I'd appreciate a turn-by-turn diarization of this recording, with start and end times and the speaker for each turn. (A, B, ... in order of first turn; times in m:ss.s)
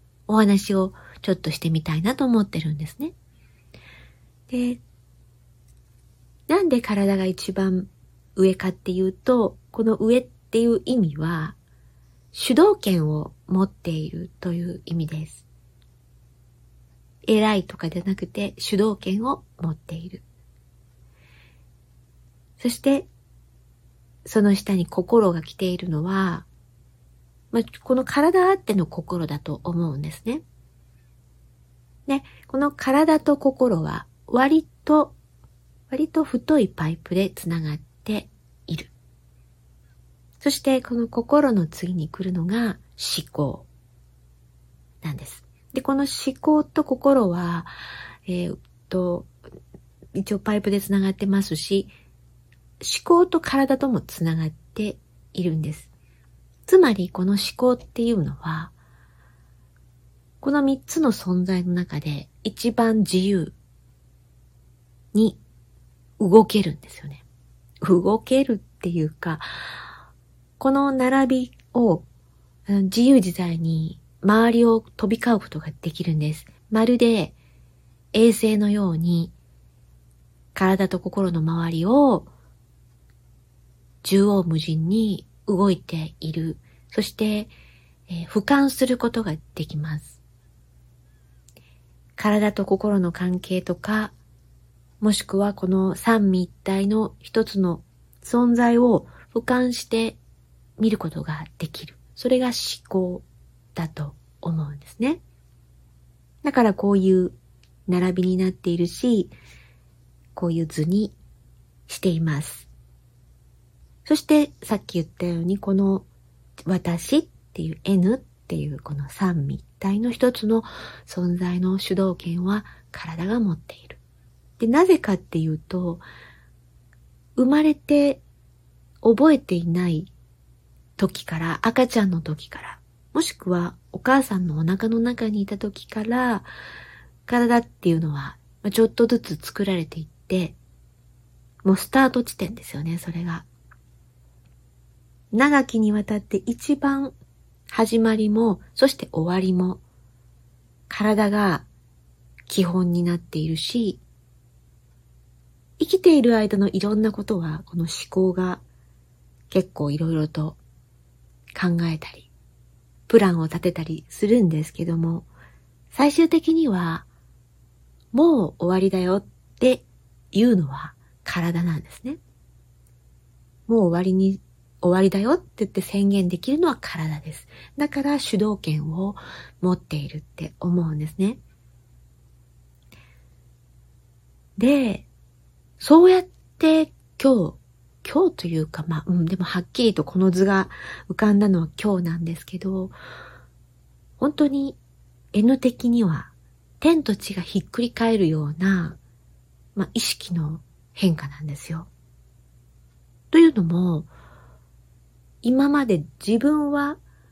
0:00.3-0:03.1 A
0:04.5-0:04.8 A
0:06.5-0:11.6 A
0:12.3-0:15.5 A
0:17.3-0:20.2 A
0:22.6-0:23.1 A
0:24.2-0:26.5 A
0:27.5-0:30.4 A
0:32.1-0:35.2 A
0:35.9-0:38.9 A
0:40.4-0:43.7 A
0:45.0-0:47.7 A
0:48.3-0:49.3 A
0:50.2-0:51.9 A
0:52.8-0:55.9 A
0:56.7-0:58.7 A
1:00.4-1:03.6 A
1:05.1-1:05.4 A
1:06.2-1:07.2 A
1:07.8-1:09.5 A
1:10.6-1:12.1 A
1:12.7-1:17.4 A
1:18.1-1:19.3 A
1:20.6-1:22.3 A
1:24.0-1:27.5 A
1:28.1-1:30.2 A
1:32.2-1:34.1 A
1:35.0-1:40.2 A
1:40.8-1:45.2 A
1:46.4-1:47.4 A
1:47.9-1:49.3 A
1:50.4-1:51.2 A
1:51.9-1:52.7 A
1:54.0-1:56.1 A
1:56.7-2:04.0 A
2:04.6-2:06.0 A
2:07.4-2:08.2 A
2:09.0-2:10.1 A
2:11.0-2:16.5 A
2:17.3-2:20.6 A
2:21.6-2:23.5 A
2:25.3-2:27.1 A
2:27.7-2:29.8 A
2:30.9-2:31.7 A
2:32.5-2:34.0 A
2:35.8-2:38.6 A
2:39.5-2:40.6 A
2:41.5-2:42.3 A
2:43.1-2:45.3 A
2:45.9-2:47.1 A
2:48.1-2:52.2 A
2:53.7-3:01.4 A
3:04.6-3:05.1 A
3:05.8-3:13.0 A
3:14.2-3:14.8 A
3:15.3-3:19.0 A
3:19.8-3:21.9 A
3:23.3-3:24.1 A
3:25.4-3:27.0 A